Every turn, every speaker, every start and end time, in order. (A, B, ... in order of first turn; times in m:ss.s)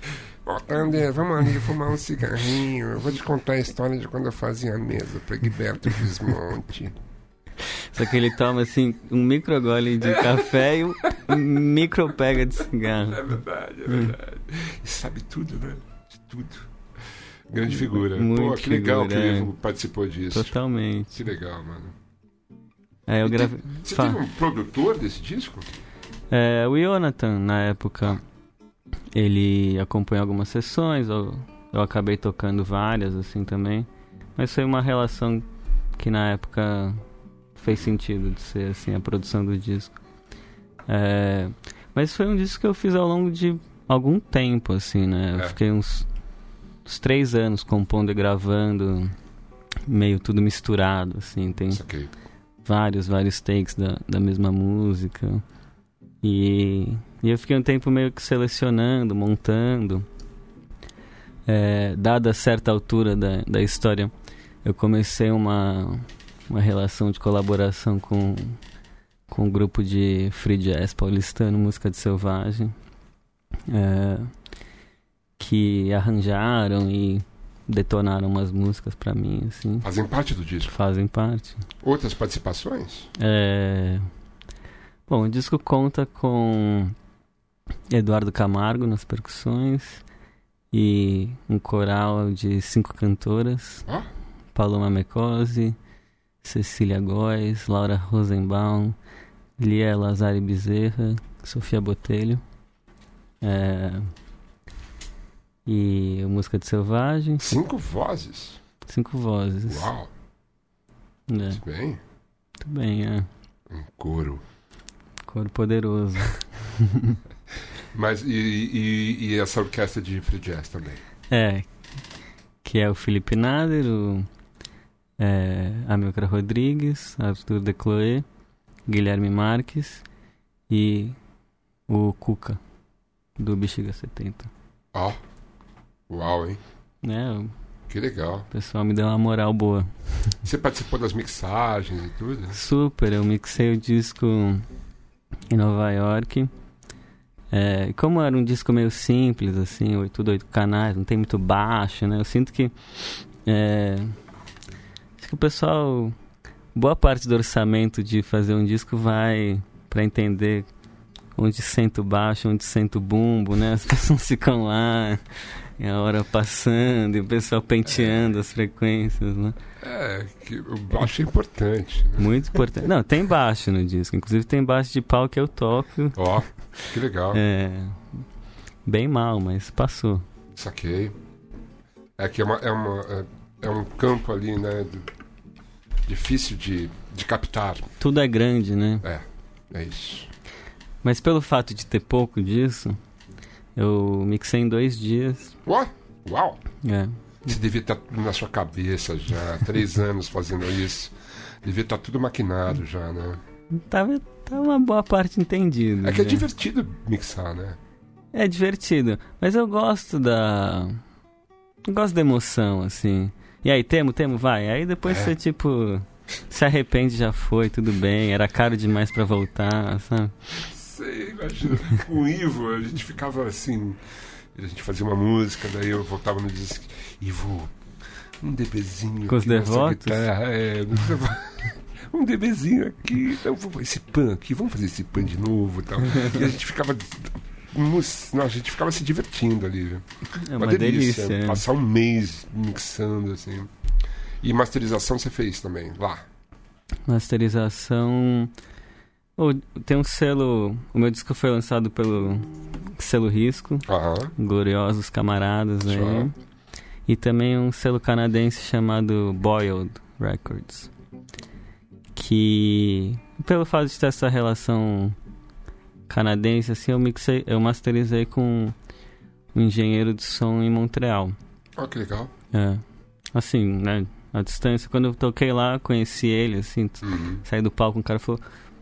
0:00.4-0:06.9 A
0:07.7-0:13.2 B
0:10.0-0:10.5 A
0:13.0-0:16.7 A
0:13.9-0:14.1 B
0:17.5-0:20.5 A
0:17.7-0:19.5 B
0:20.3-0:21.2 B
0:21.1-0:22.0 A
0:23.1-0:24.2 B
0:23.2-0:25.7 A
0:26.3-0:28.2 B
0:29.1-0:35.4 B
0:36.0-0:37.0 B
0:37.6-0:39.9 B
0:40.9-0:46.1 B
0:46.8-0:49.1 B
0:49.9-0:51.8 B
0:51.7-0:52.1 A
0:52.6-0:55.4 B
0:56.2-1:00.1 B
1:01.5-1:04.1 B
1:04.6-1:08.6 B
1:09.3-1:12.7 B
1:13.7-1:14.3 B
1:15.4-1:19.9 B
1:19.8-1:20.7 A
1:20.7-1:21.6 B
1:21.8-1:23.1 A
1:23.2-1:24.1 B
1:25.1-1:27.0 B
1:27.9-1:30.0 B
1:30.7-1:33.9 B
1:34.5-1:35.8 B
1:36.4-1:39.0 B
1:39.6-1:42.4 B
1:43.4-1:44.1 B
1:45.7-1:47.6 B
1:47.4-1:48.6 A
1:48.9-1:49.9 B
1:49.7-1:50.1 A
1:51.3-1:51.6 B
1:51.5-1:52.0 A
1:52.6-1:53.3 B
1:53.7-1:54.4 A
1:55.3-1:57.2 B
1:57.9-2:01.0 A
2:01.3-2:01.7 B
2:02.6-2:04.3 B
2:05.2-2:08.3 B
2:08.9-2:10.0 B
2:10.7-2:11.2 B
2:11.9-2:12.6 B
2:13.4-2:14.5 B
2:16.1-2:16.6 A
2:17.0-2:17.5 B
2:17.9-2:18.5 A
2:18.5-2:20.3 B
2:20.4-2:22.6 A
2:22.5-2:24.6 B
2:25.5-2:26.5 B
2:27.5-2:32.8 B
2:33.4-2:34.2 B
2:35.2-2:36.2 B
2:36.8-2:40.7 B
2:41.4-2:45.2 B
2:45.8-2:49.6 B
2:47.9-2:48.2 A
2:49.8-2:52.3 A
2:52.2-2:56.2 B
2:56.2-2:57.4 A
2:57.3-2:58.2 B
2:58.9-3:00.2 B
3:00.6-3:01.2 A
3:02.2-3:05.1 A
3:06.1-3:07.9 A
3:08.0-3:09.0 B
3:09.0-3:10.3 A
3:11.0-3:13.0 B
3:13.8-3:15.6 B
3:15.7-3:16.6 A
3:16.8-3:17.2 B
3:17.5-3:21.1 A
3:21.6-3:23.4 A
3:23.8-3:26.4 B
3:26.0-3:27.8 A
3:28.3-3:31.0 B
3:31.8-3:40.4 B
3:35.1-3:35.3 A
3:40.6-3:44.0 A
3:44.6-3:47.7 A
3:48.4-4:00.0 A
3:49.3-3:50.2 B
4:00.4-4:01.6 B
4:00.6-4:03.7 A
4:04.4-4:06.2 A
4:07.1-4:08.5 B
4:09.4-4:13.9 B
4:13.9-4:14.3 A
4:14.4-4:16.3 B
4:15.9-4:16.3 A
4:17.1-4:20.9 B
4:22.2-4:25.2 B
4:26.1-4:28.8 B
4:29.5-4:31.4 B
4:31.8-4:32.3 A
4:32.5-4:32.8 B
4:33.3-4:38.4 B
4:37.0-4:37.4 A